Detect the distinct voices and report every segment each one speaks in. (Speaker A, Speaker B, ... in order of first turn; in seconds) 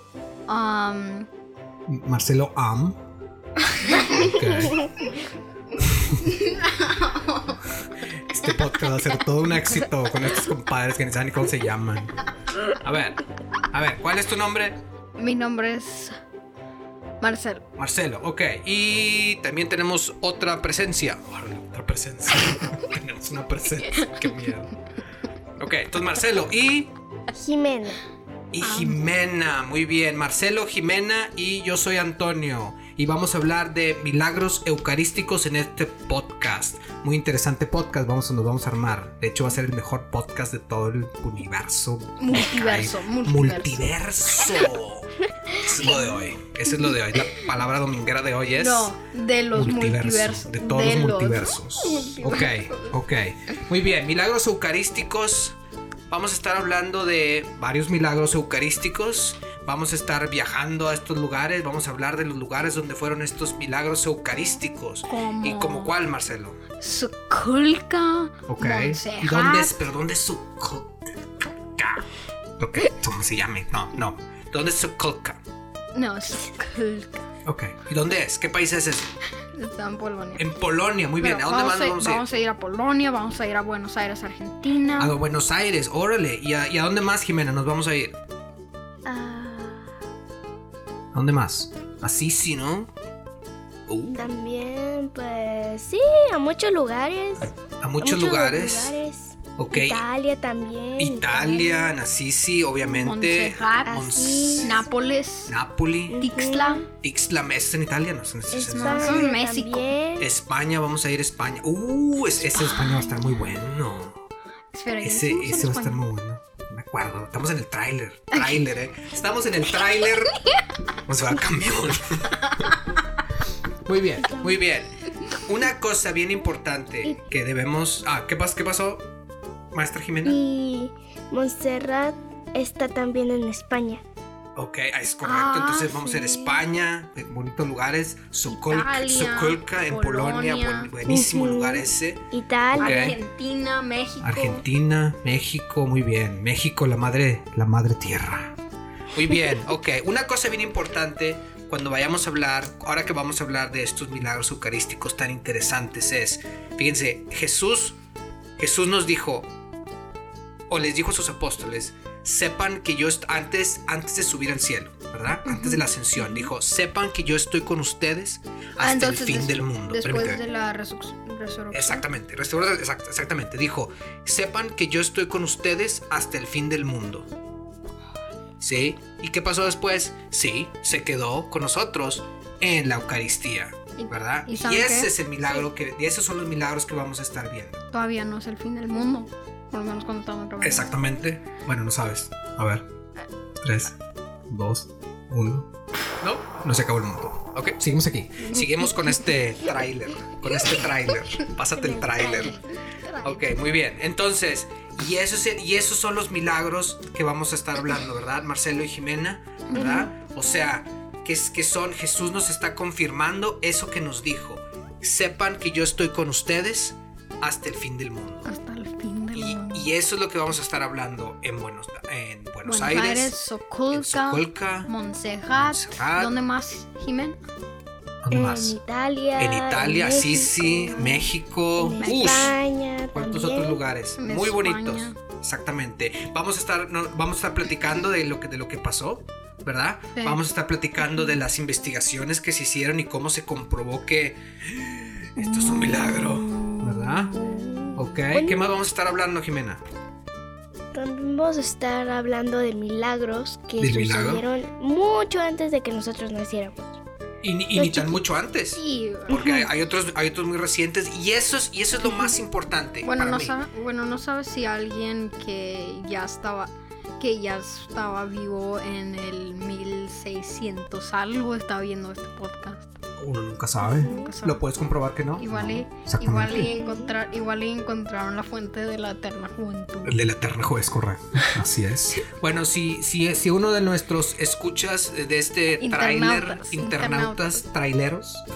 Speaker A: 0.5-1.3, 6.2-7.6, 15.2-16.2, 17.2-17.6, 24.0-24.3, 28.6-29.1, 42.2-43.9, 45.9-46.2, 48.6-53.0, 65.1-66.0, 66.8-69.8, 75.9-77.3, 79.5-80.5, 81.2-85.2, 102.8-104.0, 104.6-105.5, 106.2-106.8, 108.8-109.9, 112.5-113.3, 114.7-116.0, 135.2-136.6, 138.5-140.9, 142.8-144.7, 165.4-166.5, 168.8-172.1, 184.0-185.7, 187.9-191.0, 202.2-203.5, 209.7-210.1, 218.4-219.9, 222.7-227.4, 232.0-232.6, 234.2-235.2, 258.8-259.5, 263.0-273.0, 273.8-274.6, 275.4-280.2, 285.8-287.6
Speaker B: 1.9-3.0, 3.9-4.9, 5.9-6.2, 8.3-12.1, 12.8-14.8, 17.8-24.7, 25.6-26.9, 28.5-48.9, 49.5-55.6, 56.1-66.6, 68.5-71.0, 71.8-72.1, 72.6-75.4, 77.5-79.1, 80.4-82.2, 85.0-88.2, 91.1-92.9, 93.9-94.3, 97.8-99.0, 99.6-100.1, 101.0-104.9, 105.5-106.2, 107.0-109.3, 110.2-114.2, 115.0-120.3, 121.1-122.7, 123.9-129.1, 129.7-130.4, 134.6-143.2, 144.2-148.6, 149.1-158.0, 158.6-159.5, 160.7-170.4, 171.7-177.3, 178.6-187.8, 190.6-192.8, 193.6-193.9, 194.5-195.7, 196.2-202.6, 203.2-218.5, 219.3-223.3, 223.9-224.9, 225.5-226.3, 228.2-228.8, 229.4-232.6, 233.1-247.3, 247.9-249.8, 253.8-254.4, 257.4-263.6, 273.2-276.7, 280.0-288.4
Speaker C: 27.3-28.0, 89.0-90.0, 94.2-102.0, 103.9-104.9, 106.1-106.9, 108.5-110.3, 124.2-124.7, 130.2-134.0, 141.1-143.0, 201.8-202.6, 209.7-210.1, 228.3-231.2, 231.8-233.8, 245.6-248.6, 250.9-256.9, 257.7-258.2, 259.3-259.7, 262.0-262.4, 273.9-274.4, 276.5-277.1